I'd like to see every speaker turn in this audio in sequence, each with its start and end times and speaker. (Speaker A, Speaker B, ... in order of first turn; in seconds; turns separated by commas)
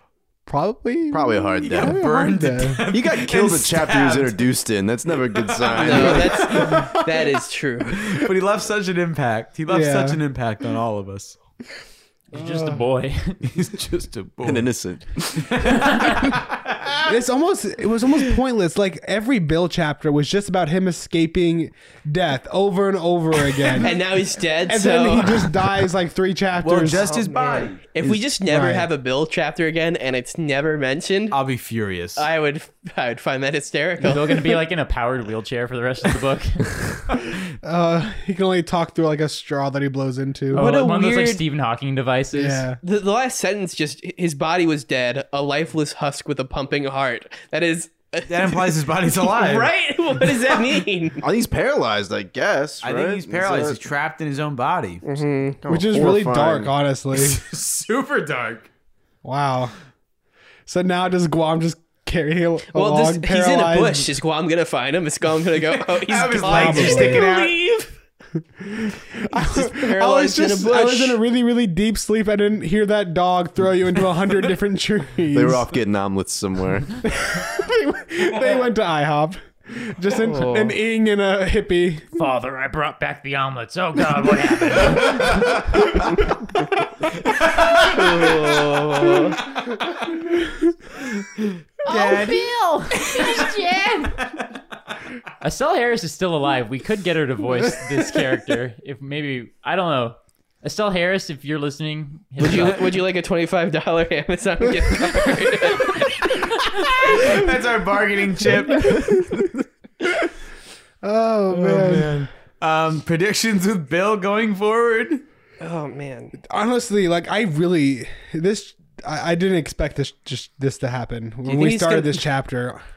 Speaker A: 0.5-2.9, Speaker B: 1.1-2.0, Speaker C: 1.6-4.5, Speaker B: 2.9-6.4, Speaker C: 5.4-7.0, Speaker D: 5.8-8.1, Speaker A: 6.5-7.0, Speaker C: 7.9-11.4, Speaker A: 9.7-10.2, Speaker E: 12.3-13.4, Speaker A: 12.3-12.8, Speaker C: 13.4-14.7, Speaker B: 14.4-15.5, Speaker C: 15.3-17.1, Speaker A: 17.1-24.0, Speaker D: 23.7-25.4, Speaker A: 24.7-27.1, Speaker C: 26.6-28.2, Speaker D: 27.2-31.4, Speaker A: 28.5-28.9, Speaker C: 31.3-32.3, Speaker D: 32.2-34.5, Speaker E: 34.0-36.7, Speaker A: 37.6-40.7, Speaker E: 40.5-42.7, Speaker D: 40.5-41.4, Speaker A: 42.3-42.8, Speaker D: 42.8-51.2, Speaker C: 48.3-49.7, Speaker B: 51.2-53.8, Speaker C: 52.8-55.1, Speaker D: 55.0-55.6, Speaker B: 55.6-56.7, Speaker A: 55.7-57.4, Speaker C: 57.1-58.7, Speaker A: 59.2-59.7, Speaker A: 60.7-64.2, Speaker D: 62.7-67.9, Speaker C: 65.6-67.6, Speaker A: 66.5-67.3, Speaker A: 68.6-75.7, Speaker D: 69.3-71.2, Speaker B: 75.3-77.0, Speaker A: 77.1-82.2, Speaker D: 80.2-80.8, Speaker E: 82.2-85.9, Speaker C: 87.2-88.1, Speaker D: 87.8-89.4, Speaker C: 91.1-93.5, Speaker E: 91.9-94.2, Speaker C: 94.2-94.4, Speaker E: 95.4-103.0, Speaker D: 102.4-106.2, Speaker C: 106.9-109.2, Speaker A: 108.6-109.5, Speaker A: 111.0-112.2, Speaker C: 111.5-115.2, Speaker D: 115.6-116.3, Speaker A: 116.4-122.8, Speaker D: 121.5-122.2